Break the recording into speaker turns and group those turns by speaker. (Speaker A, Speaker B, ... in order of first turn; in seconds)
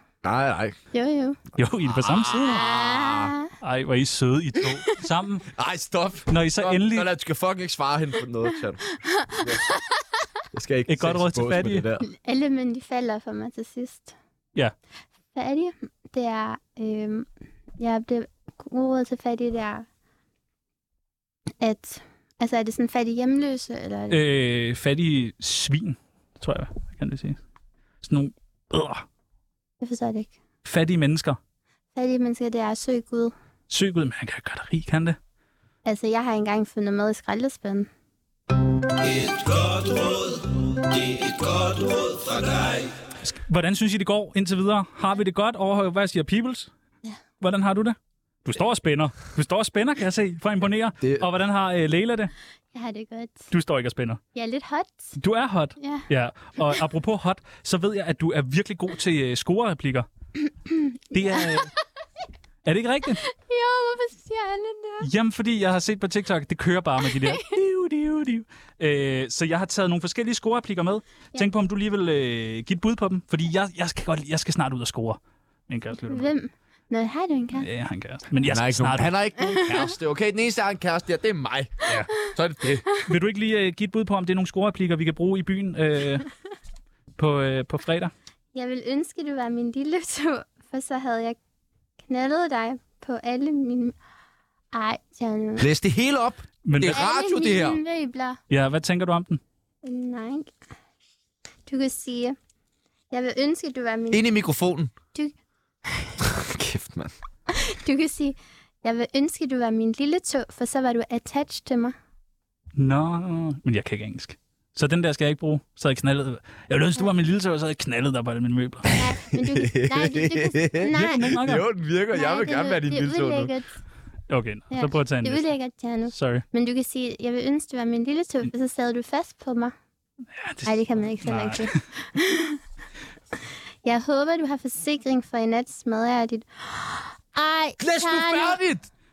Speaker A: 0.2-0.8, 1.8-3.3, 5.5-8.8, 9.3-9.6, 10.5-12.1, 51.0-51.3, 78.4-82.8, 95.6-97.8, 104.1-104.9, 106.2-107.1, 119.3-123.5, 137.8-138.9
Speaker B: 0.9-1.4, 2.5-3.5, 9.0-10.0, 12.0-14.2, 15.3-17.3, 17.8-19.9, 21.6-24.2, 29.8-30.4, 31.9-33.3, 35.9-37.9, 52.7-53.5, 54.4-55.1, 55.8-56.1, 60.7-61.7, 63.3-65.1, 67.2-67.5, 76.1-77.7, 79.5-79.8, 88.5-91.4, 92.0-94.0, 94.7-95.7, 96.9-98.4, 99.8-100.5, 101.7-102.4, 103.1-104.3, 105.9-106.2, 107.5-112.0, 118.9-121.3, 122.1-123.8, 124.7-129.7, 130.6-132.6, 133.8-138.6
Speaker C: 1.6-2.7, 3.6-5.5, 6.3-7.1, 10.9-11.9, 24.1-27.4, 28.0-29.1, 30.6-31.4, 33.7-35.2, 39.1-40.5, 41.1-46.7, 47.4-52.3, 53.5-54.2, 55.2-60.1, 61.1-61.7, 62.6-63.2, 65.0-76.3, 77.6-79.1, 83.1-86.3, 87.2-88.1, 96.7-97.0, 98.5-99.4, 112.8-119.0, 120.9-121.7, 124.3-125.6, 126.1-126.4, 130.4-131.8